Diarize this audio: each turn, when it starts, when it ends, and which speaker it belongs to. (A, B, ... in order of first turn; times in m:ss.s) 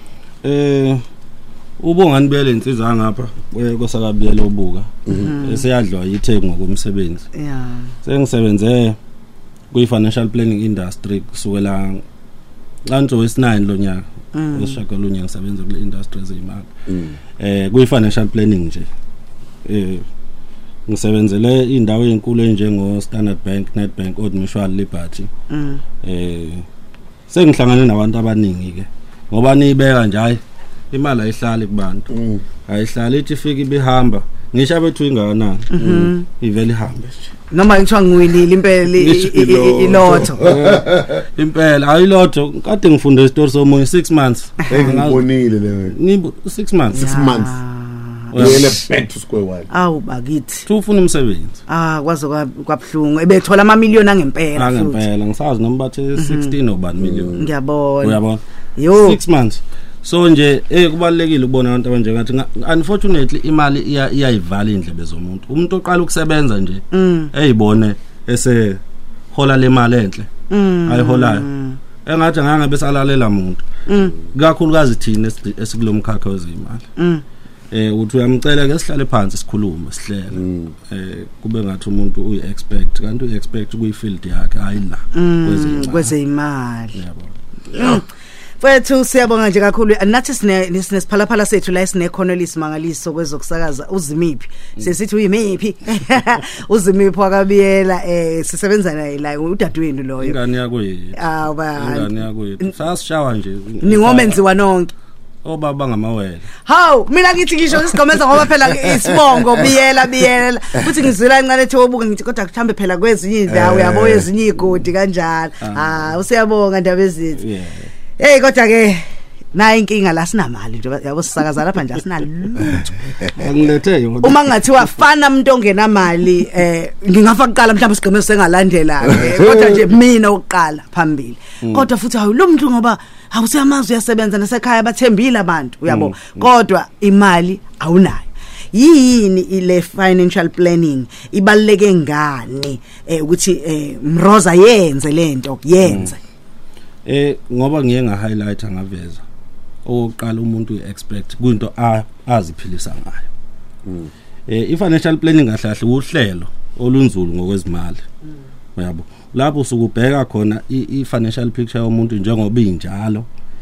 0:00.4-0:01.0 A
0:01.8-0:07.3 A
0:05.1-0:05.7 B
0:07.4-0:07.9 B
0:08.0-0:09.0 A
0:09.7-0:12.0 A
0:12.9-0:16.7 A
0:14.3-0:14.8 B
0:16.9-0:17.2 C
0:17.4-0:18.9 A
0:19.6-0:20.0 A
0:20.9-0:25.3 A
0:25.5-0:25.8 B
0:26.0-0:26.7 A
0:27.3-0:30.4 A
0:30.9-0:32.1 A
0:32.1-0:32.4 C
0:32.7-0:37.3 A
0:35.7-0:36.3 B
0:35.8-0:36.1 C
0:37.5-0:40.6 B
0:39.0-0:45.3 A
0:39.8-0:41.2 C
0:44.7-0:46.0 C
0:45.9-0:47.1 A
0:46.9-0:47.6 C
0:46.9-0:48.6 B
0:48.3-0:48.8 A
0:48.3-0:49.7 C
0:49.7-0:50.7 B
0:50.7-0:51.6 A
0:51.7-0:55.0 B
0:54.6-0:57.5 A
0:56.2-0:56.5 B
0:57.0-0:57.5 C
0:57.3-0:58.2 B
0:58.0-1:08.8 A
0:58.8-0:59.2 B
1:06.9-1:07.3 B
1:09.3-1:10.3 A
1:10.5-1:11.8 B
1:10.9-1:11.5 A
1:12.0-1:13.6 A
1:13.9-1:14.2 B
1:14.2-1:16.9 A
1:17.0-1:17.2 B
1:17.7-1:26.2 A
1:20.3-1:20.8 C
1:25.1-1:27.0 B
1:26.9-1:27.4 A
1:27.7-1:28.0 B
1:28.6-1:40.4 B
1:40.2-1:41.2 A
1:41.2-1:42.7 B
1:41.8-1:44.4 A
1:43.8-1:44.9 B
1:45.4-1:46.5 A
1:46.6-1:57.4 B
1:53.5-1:54.3 C
1:55.6-1:56.1 A
1:57.4-1:57.9 A
1:58.2-2:03.1 B
2:03.3-2:04.7 A
2:04.2-2:26.2 B
2:11.6-2:11.9 A
2:15.9-2:16.5 A
2:25.8-2:26.1 A
2:27.1-2:29.2 A
2:29.8-2:33.3 A
2:33.8-2:34.1 C
2:34.5-2:38.0 A
2:38.8-2:43.3 A